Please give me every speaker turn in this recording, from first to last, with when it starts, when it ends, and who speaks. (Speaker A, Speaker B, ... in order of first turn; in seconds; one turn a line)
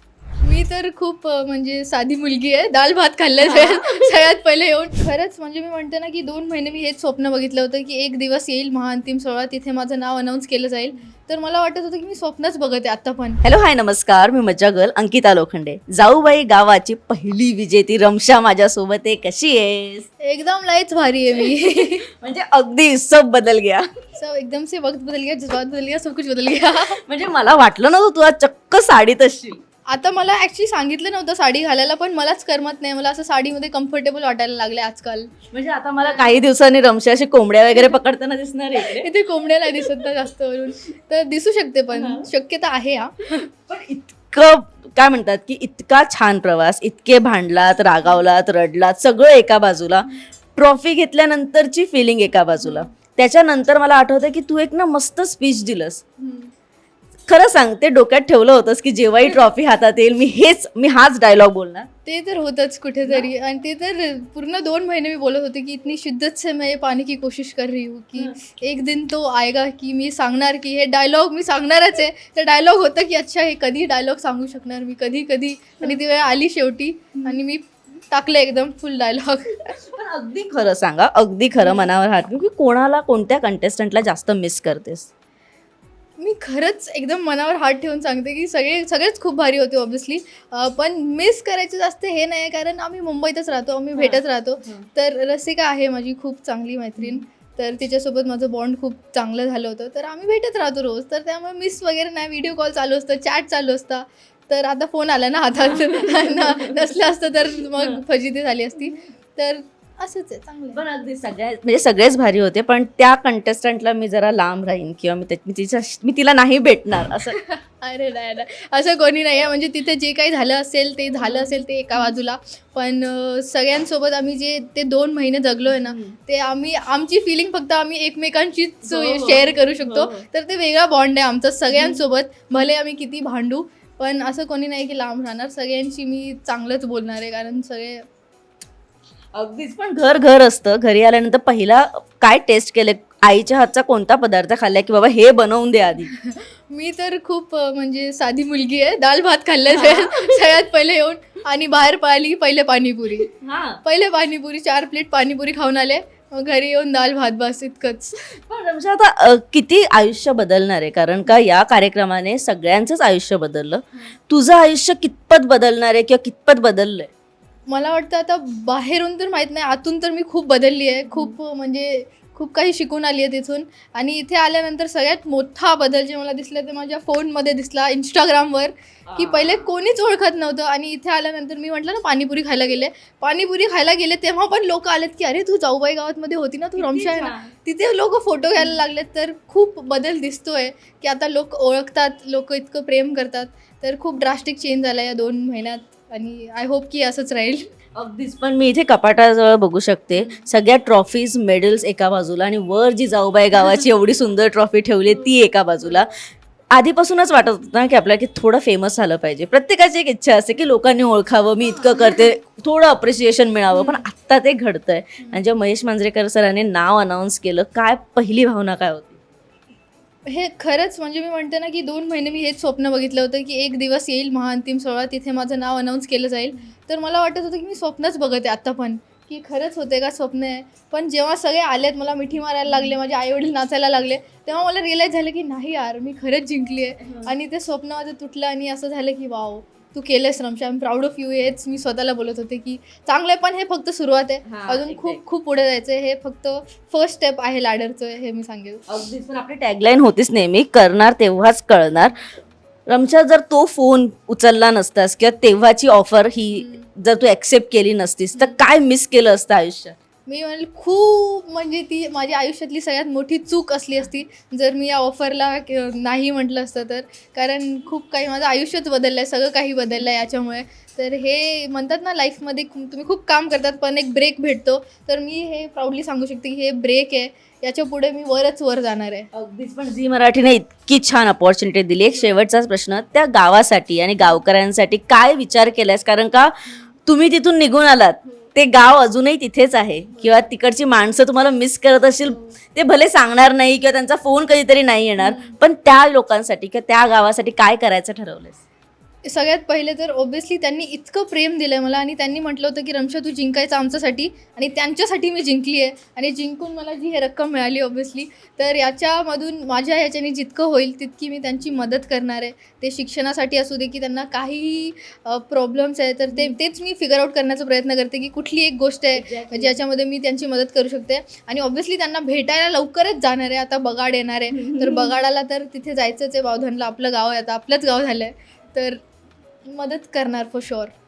Speaker A: 0.4-13.4
Speaker B: 3.4-4.1
Speaker B: 13.4-20.1
Speaker A: 20.2-22.1
Speaker B: 22.2-23.9
Speaker A: 24.2-27.0
Speaker B: 27.1-29.6
Speaker A: 29.9-35.3
Speaker B: 35.5-39.1
Speaker A: 36.0-36.3
Speaker A: 38.9-43.4
Speaker B: 41.9-42.3
Speaker B: 43.6-56.0
Speaker A: 52.6-52.9
Speaker A: 56.2-56.5
Speaker B: 57.3-61.9
Speaker A: 62.0-79.6
Speaker B: 79.7-85.1
Speaker A: 81.6-81.9
Speaker A: 86.2-110.8
Speaker B: 94.0-94.9
Speaker B: 105.6-106.9
Speaker B: 110.8-117.4
Speaker A: 117.4-138.1
Speaker B: 121.2-121.6
Speaker B: 125.7-126.2
Speaker B: 128.8-130.3
Speaker B: 131.7-132.0
Speaker B: 139.3-146.1
Speaker A: 146.2-153.3
Speaker B: 149.7-150.5
Speaker B: 153.3-153.8
Speaker A: 153.8-158.1
Speaker B: 158.4-167.1
Speaker A: 167.7-197.7
Speaker B: 179.1-179.7
Speaker B: 186.8-187.5
Speaker B: 198.0-206.1
Speaker A: 200.1-200.5
Speaker A: 205.8-206.1
Speaker B: 206.7-219.2
Speaker A: 211.8-212.2
Speaker A: 213.7-214.0
Speaker A: 220.3-248.9
Speaker B: 237.0-237.3
Speaker B: 244.5-245.2
Speaker B: 248.9-252.2
Speaker B: 252.9-259.9
Speaker A: 256.5-256.9
Speaker A: 260.3-279.3
Speaker B: 279.3-286.5
Speaker B: 287.1-298.6
Speaker A: 295.2-295.6
Speaker A: 299.2-329.0
Speaker B: 319.1-319.8
Speaker B: 324.5-325.2
Speaker A: 329.7-330.9